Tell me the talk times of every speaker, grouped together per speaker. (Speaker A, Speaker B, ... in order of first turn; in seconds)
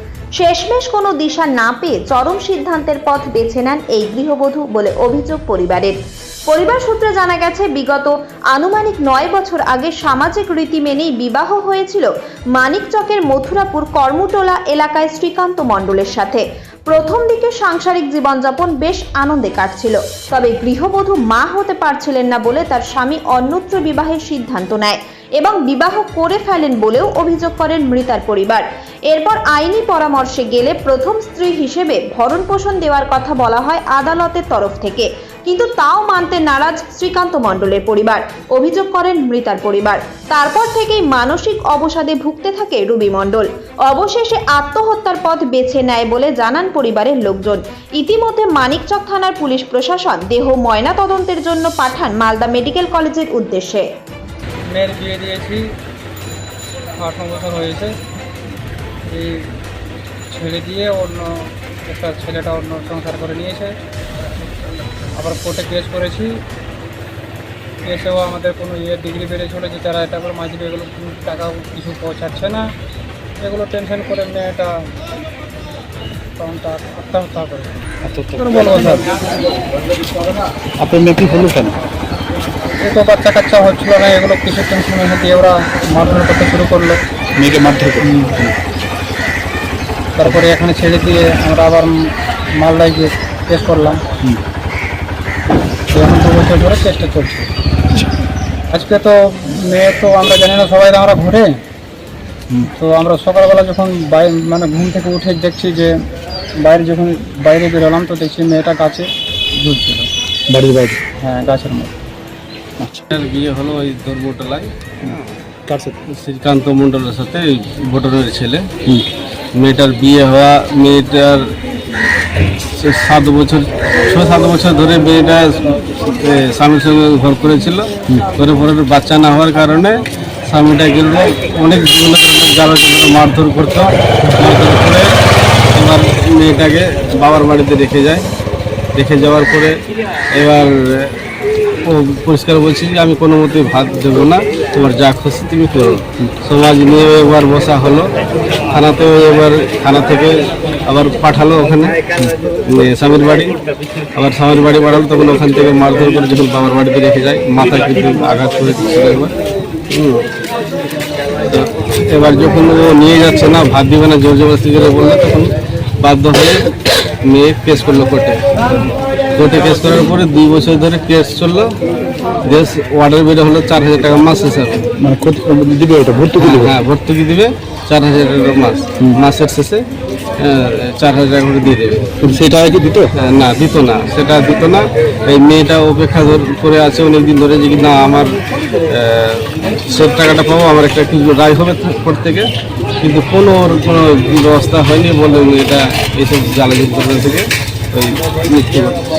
Speaker A: 0.4-6.0, 6.5-53.9
Speaker B: 54.7-55.6, 57.0-57.9, 59.1-59.5, 60.3-63.7, 65.2-66.3, 67.8-72.7, 73.4-74.7, 76.4-77.8, 78.4-79.1, 82.7-87.0, 90.2-92.0, 92.6-94.0, 95.9-97.5, 98.7-101.5, 102.7-105.9, 106.6-109.1, 109.6-110.0, 111.2-111.9
Speaker C: 78.0-79.0, 80.8-81.8, 87.4-88.5, 110.5-111.0, 112.8-113.0, 115.7-116.0, 175.0-176.8, 182.2-183.1
Speaker D: 113.1-115.2, 116.1-118.7, 119.5-121.5, 122.6-135.1, 135.7-138.3, 138.9-139.8, 140.3-141.2, 141.8-148.1, 148.7-152.0, 152.7-153.5, 154.2-159.3, 159.9-160.2, 161.5-166.7, 167.2-168.4, 169.3-171.8, 172.4-174.9, 176.4-179.8, 180.4-182.2, 183.2-192.5, 193.0-198.9